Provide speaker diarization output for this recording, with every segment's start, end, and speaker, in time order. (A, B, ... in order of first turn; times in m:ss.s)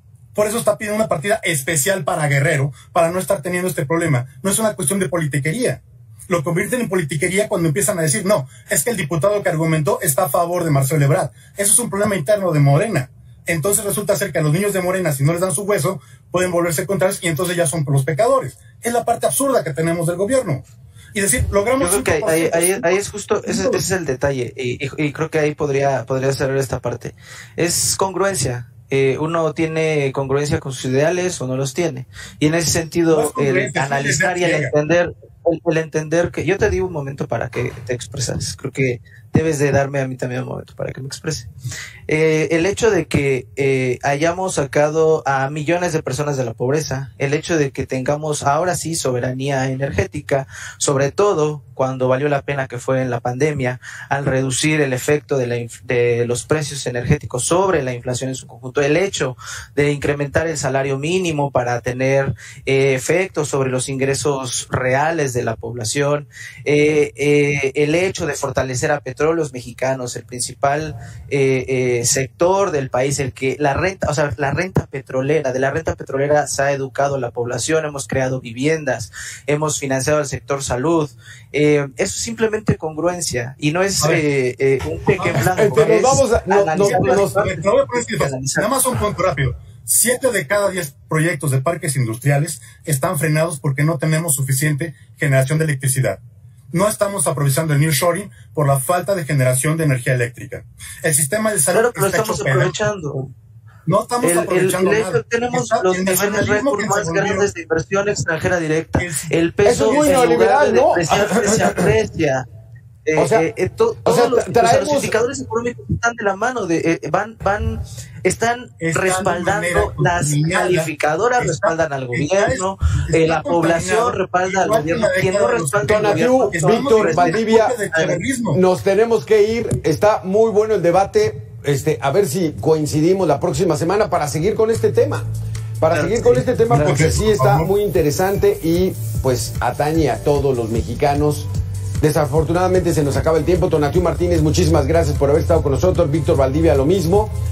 0:00.4-0:23.8 A
0:21.8-0:41.5 B
0:33.1-0:34.7 A
0:42.1-1:28.7 B
1:25.2-1:25.9 A
1:25.4-1:27.4 C
1:26.8-1:36.2 A
1:36.7-1:42.8 A
1:41.7-1:43.3 B
1:43.9-1:47.5 A
1:44.2-1:52.4 B
1:49.0-1:49.3 A
1:49.6-1:51.9 C
1:53.1-2:08.2 B
1:53.2-1:53.5 C
1:54.0-1:55.1 C
1:58.8-2:08.6 A
2:05.9-2:07.8 C
2:08.5-2:15.3 C
2:15.8-2:21.5 C
2:15.9-2:17.1 B
2:16.7-2:17.7 A
2:22.0-2:27.4 C